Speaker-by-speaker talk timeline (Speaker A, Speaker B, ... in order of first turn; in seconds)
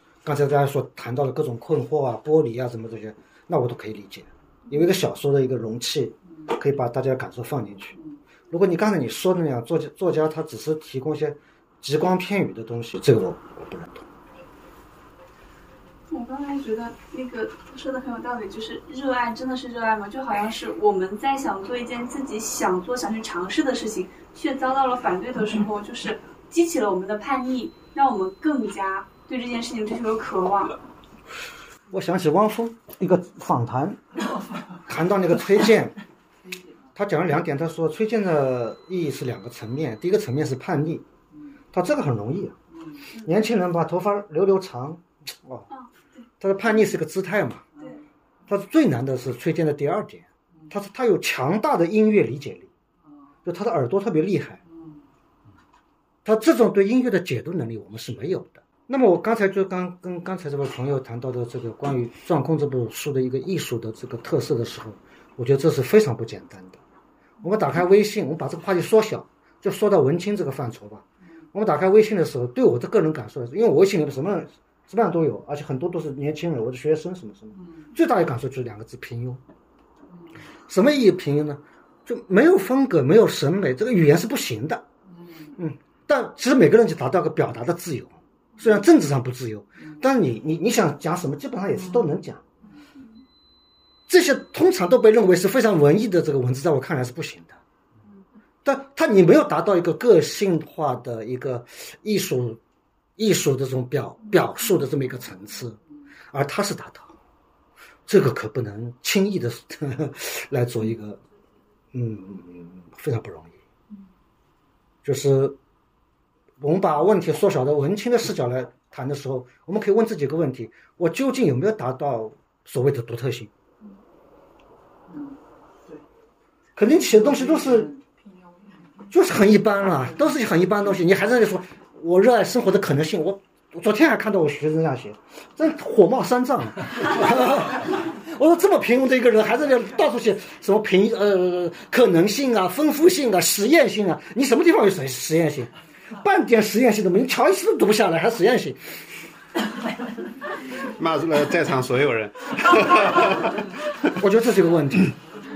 Speaker A: 0.2-14.0, 31.9-34.0, 34.9-36.0, 36.9-41.0, 41.7-42.6, 43.2-45.6, 46.4-47.6, 48.5-52.7, 53.4-54.6, 56.2-66.8, 67.4-79.4, 80.7-84.8, 85.4-92.4, 94.1-97.6, 98.6-102.6, 103.2-107.1, 108.1-111.2, 111.9-113.6, 115.0-115.6, 116.6-123.5, 126.8-127.9, 129.1-149.0, 154.1-155.2
Speaker B: 16.1-30.8, 45.7-46.2
Speaker C: 150.9-154.0